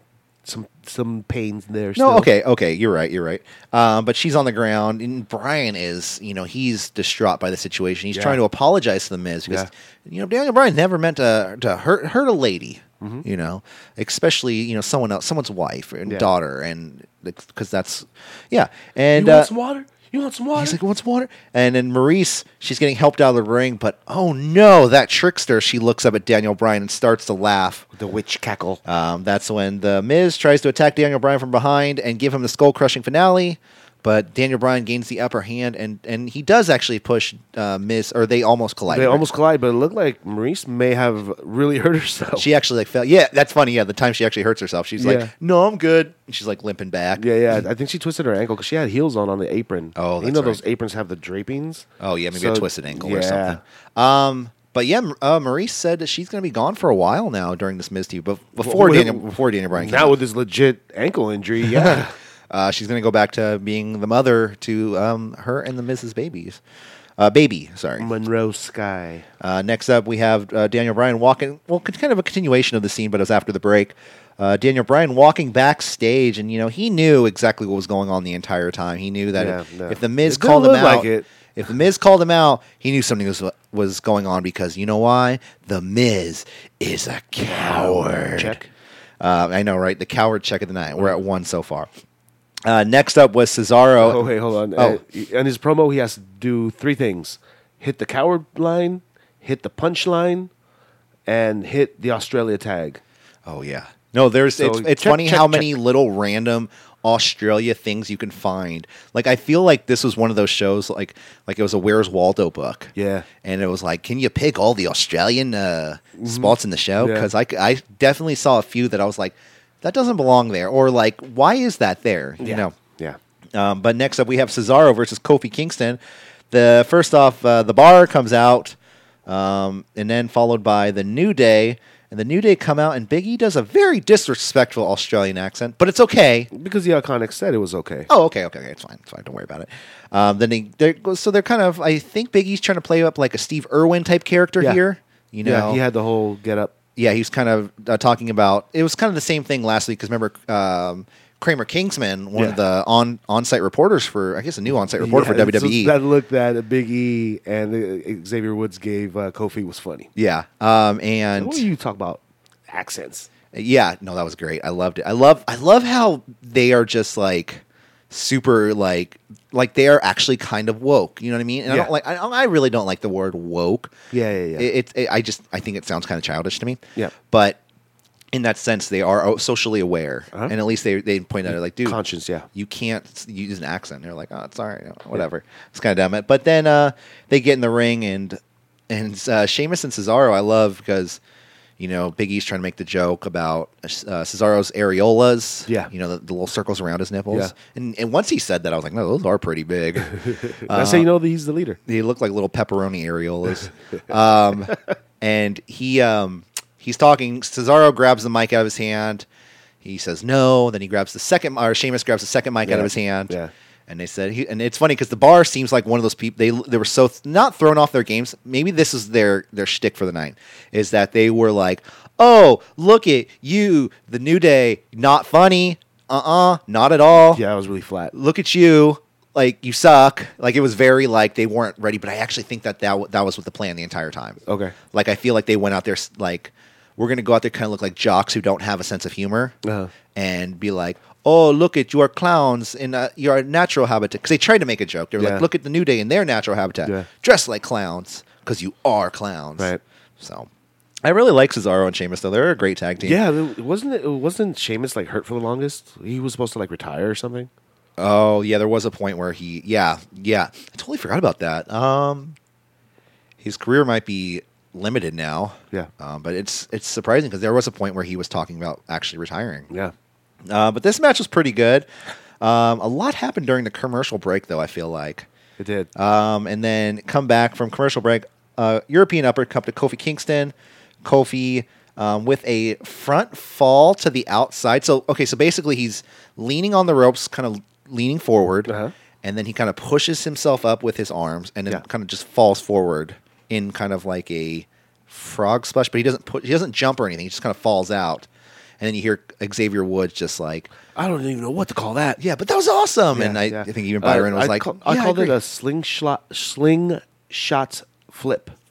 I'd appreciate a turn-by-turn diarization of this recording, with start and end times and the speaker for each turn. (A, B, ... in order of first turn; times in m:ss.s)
0:00.4-0:02.3 A
0:02.0-0:19.5 B
0:08.1-0:08.4 A
0:13.0-0:13.2 A
0:19.1-0:20.8 A
0:20.6-0:27.8 B
0:27.9-0:28.8 A
0:28.8-0:39.2 B
0:38.9-0:42.5 A
0:42.4-0:47.2 B
0:45.0-0:45.3 A
0:47.2-0:53.6 A
0:50.0-0:50.6 B
0:52.0-1:00.2 B
0:58.6-1:02.1 A
1:01.7-1:06.6 B
1:07.2-1:08.1 B
1:08.0-1:09.3 A
1:09.4-1:28.6 B
1:19.3-1:21.3 A
1:27.4-1:28.7 A
1:29.2-1:31.9 B
1:32.6-1:34.2 B
1:34.0-1:40.5 A
1:34.8-1:35.0 B
1:41.3-1:43.0 A
1:43.4-2:02.7 B
1:44.6-1:45.7 A
1:52.9-1:53.3 A
1:56.2-1:57.3 A
2:02.4-2:03.2 A
2:03.5-2:06.0 B
2:06.5-2:16.5 B
2:16.5-2:18.1 A
2:18.1-2:25.8 B
2:25.4-2:26.7 A
2:27.0-2:36.0 B
2:35.0-2:40.1 A
2:40.2-2:41.6 B
2:41.4-2:43.3 A
2:43.5-2:53.9 B
2:54.1-2:54.7 A
2:54.6-2:57.6 B
2:58.3-3:02.0 B
3:01.5-3:02.5 A
3:02.5-3:11.2 B
3:11.8-3:21.1 B
3:20.2-3:21.8 A
3:21.8-3:29.2 B
3:29.8-3:33.3 B
3:32.6-3:33.5 A
3:33.9-3:47.4 B
3:47.1-3:48.1 A
3:48.1-3:54.4 B
3:54.4-3:54.7 A
3:54.9-3:59.6 B
3:59.6-3:59.9 A
4:00.1-4:10.5 B
4:05.2-4:05.4 A
4:11.0-4:13.2 B
4:13.0-4:17.5 A
4:18.0-4:22.4 B
4:23.4-4:29.7 B
4:30.4-4:31.9 B
4:32.4-4:35.3 B
4:35.6-4:35.9 A
4:35.9-4:48.7 B
4:48.7-4:48.9 A
4:49.2-4:58.3 B
4:58.8-5:00.7 B
5:00.9-5:02.2 A
5:02.2-5:05.3 B
5:03.1-5:08.5 A